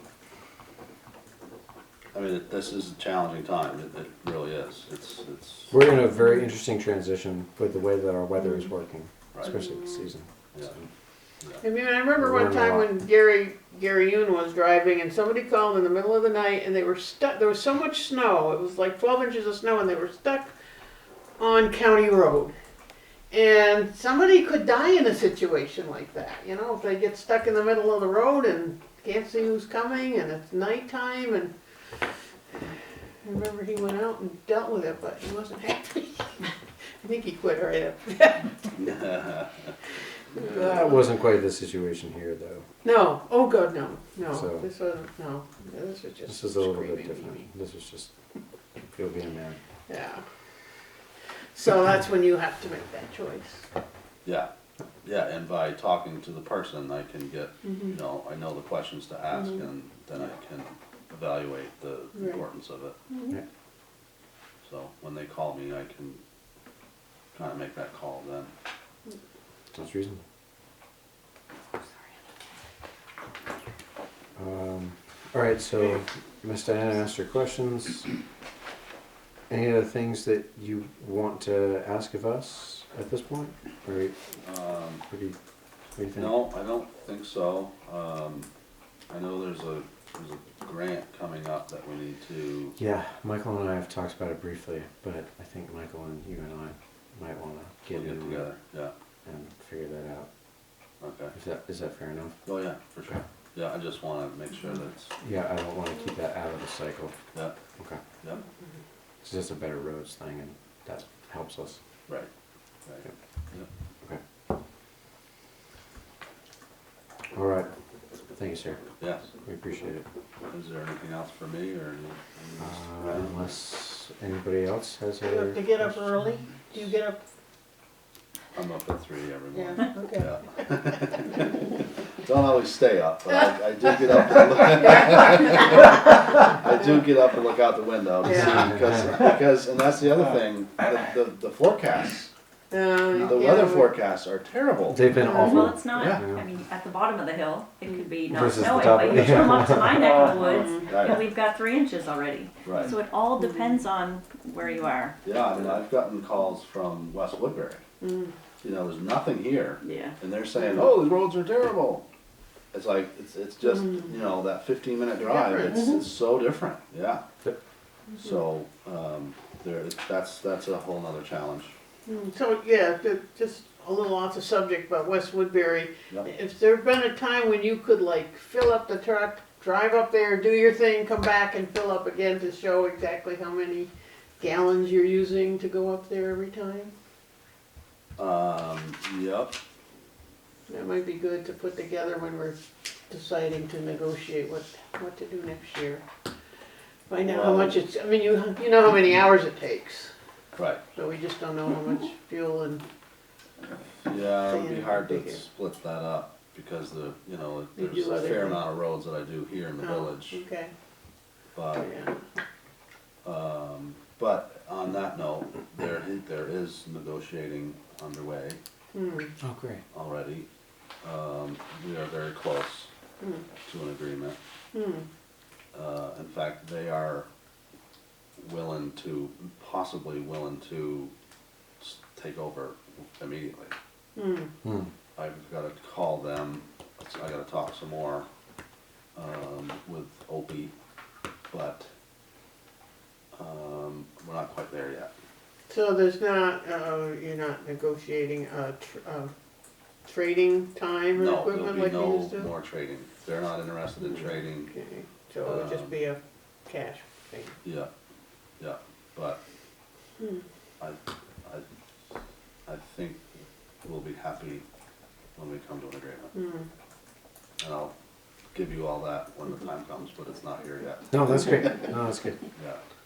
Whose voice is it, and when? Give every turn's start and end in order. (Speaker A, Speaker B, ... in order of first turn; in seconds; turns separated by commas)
Speaker A: 2.1-5.8, Speaker B: 5.7-10.9, Speaker C: 8.4-8.7, Speaker C: 9.4-10.1, Speaker C: 11.6-20.5, Speaker B: 12.2-12.9, Speaker C: 21.4-22.5, Speaker C: 23.3-31.5, Speaker C: 33.2-38.6, Speaker A: 38.7-39.7, Speaker C: 40.3-41.0, Speaker B: 40.5-42.6, Speaker C: 42.8-47.4, Speaker B: 44.3-44.7, Speaker B: 46.3-48.1, Speaker B: 48.9-49.6, Speaker C: 49.9-50.2, Speaker C: 51.5-53.7, Speaker A: 55.0-63.0, Speaker C: 57.6-58.0, Speaker C: 59.3-59.6, Speaker C: 62.1-62.4, Speaker A: 64.6-66.2, Speaker A: 67.3-68.5, Speaker B: 69.7-70.2, Speaker B: 74.4-78.1, Speaker B: 79.5-84.2, Speaker A: 84.4-85.0, Speaker B: 85.1-85.4, Speaker B: 86.0-86.3, Speaker A: 86.2-88.5, Speaker A: 89.1-92.8, Speaker B: 92.8-98.5, Speaker A: 97.9-98.9, Speaker B: 99.2-100.3, Speaker A: 101.0-101.3, Speaker B: 101.3-102.4, Speaker A: 102.5-105.2, Speaker B: 105.2-107.1, Speaker B: 109.2-111.8, Speaker A: 112.9-113.7, Speaker B: 117.3-117.7, Speaker B: 118.3-118.8, Speaker A: 119.0-119.3, Speaker B: 119.4-120.0, Speaker A: 120.5-123.5, Speaker B: 122.6-126.0, Speaker C: 125.2-127.2, Speaker A: 128.5-142.3, Speaker C: 129.5-130.4, Speaker C: 138.2-138.8, Speaker C: 142.7-144.0, Speaker A: 143.2-145.1, Speaker B: 144.9-146.4, Speaker C: 145.2-145.7, Speaker D: 145.2-155.2, Speaker A: 145.9-146.2, Speaker B: 148.3-150.1, Speaker C: 150.4-150.9, Speaker A: 150.8-151.2, Speaker A: 152.7-152.9, Speaker C: 153.4-153.8, Speaker A: 155.2-157.8, Speaker C: 158.0-158.3, Speaker A: 158.6-162.0, Speaker D: 159.8-160.2, Speaker A: 162.7-167.2, Speaker C: 163.7-164.1, Speaker C: 165.2-166.0, Speaker A: 168.2-171.7, Speaker C: 172.1-186.9, Speaker A: 188.2-189.6, Speaker C: 190.7-192.6, Speaker C: 193.1-196.0, Speaker C: 197.1-200.1, Speaker A: 197.2-197.8, Speaker A: 200.6-200.8, Speaker C: 200.9-202.8, Speaker A: 204.1-210.4, Speaker C: 204.4-205.4, Speaker C: 207.8-208.6, Speaker C: 209.8-210.7, Speaker A: 211.6-211.9, Speaker C: 211.7-212.2, Speaker A: 213.2-218.6, Speaker C: 218.9-219.3, Speaker B: 219.4-219.8, Speaker A: 219.9-220.5, Speaker A: 221.0-222.9, Speaker C: 223.2-223.4, Speaker A: 223.7-224.4, Speaker C: 224.7-225.1, Speaker A: 225.7-227.3, Speaker A: 228.4-231.1, Speaker A: 231.8-233.7, Speaker C: 234.2-234.5, Speaker B: 234.6-234.9, Speaker A: 235.2-238.3, Speaker A: 239.2-240.7, Speaker A: 241.5-241.9, Speaker A: 243.3-245.1, Speaker C: 245.7-249.3, Speaker C: 250.1-252.5, Speaker A: 251.1-254.7, Speaker C: 254.0-257.6, Speaker A: 255.4-256.0, Speaker A: 257.6-257.9, Speaker A: 258.6-259.4, Speaker C: 260.2-260.4, Speaker A: 260.8-261.6, Speaker A: 262.7-263.2, Speaker A: 263.8-264.6, Speaker A: 265.4-266.3, Speaker C: 266.3-266.7, Speaker A: 267.6-267.9, Speaker A: 268.5-271.8, Speaker B: 271.1-272.4, Speaker A: 272.6-272.8